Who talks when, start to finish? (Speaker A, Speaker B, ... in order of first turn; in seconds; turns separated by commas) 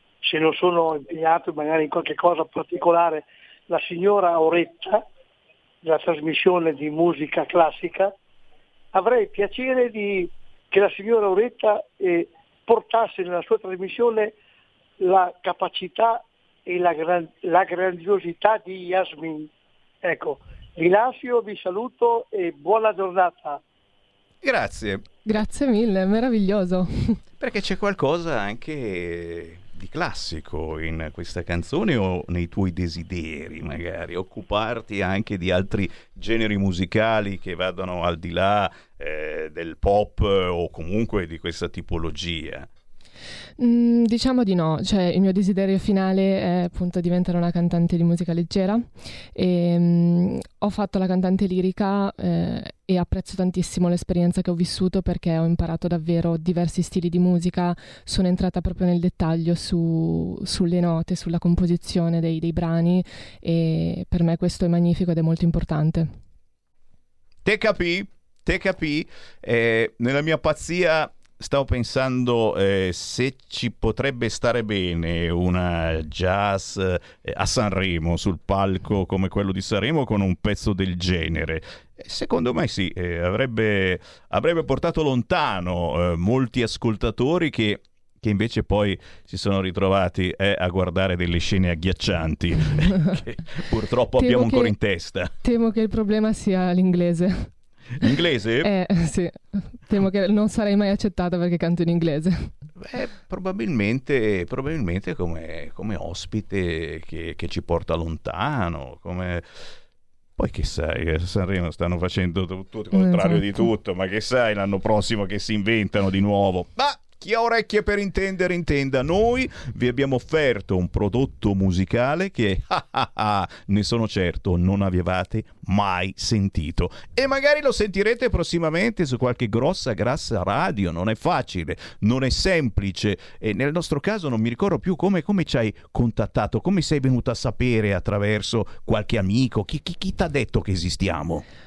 Speaker A: 0.2-5.0, Speaker A: 5.8-8.1, Speaker A: 8.9-14.4, Speaker A: 15.0-19.5, Speaker A: 20.0-23.6, Speaker B: 24.4-25.1, Speaker C: 25.2-27.2, Speaker B: 27.4-42.7, Speaker C: 43.6-66.2, Speaker B: 67.5-95.3, Speaker C: 94.2-94.7, Speaker C: 95.4-97.5, Speaker B: 98.0-98.7, Speaker C: 98.6-102.5, Speaker B: 102.8-109.5, Speaker B: 110.4-141.4, Speaker C: 112.9-113.7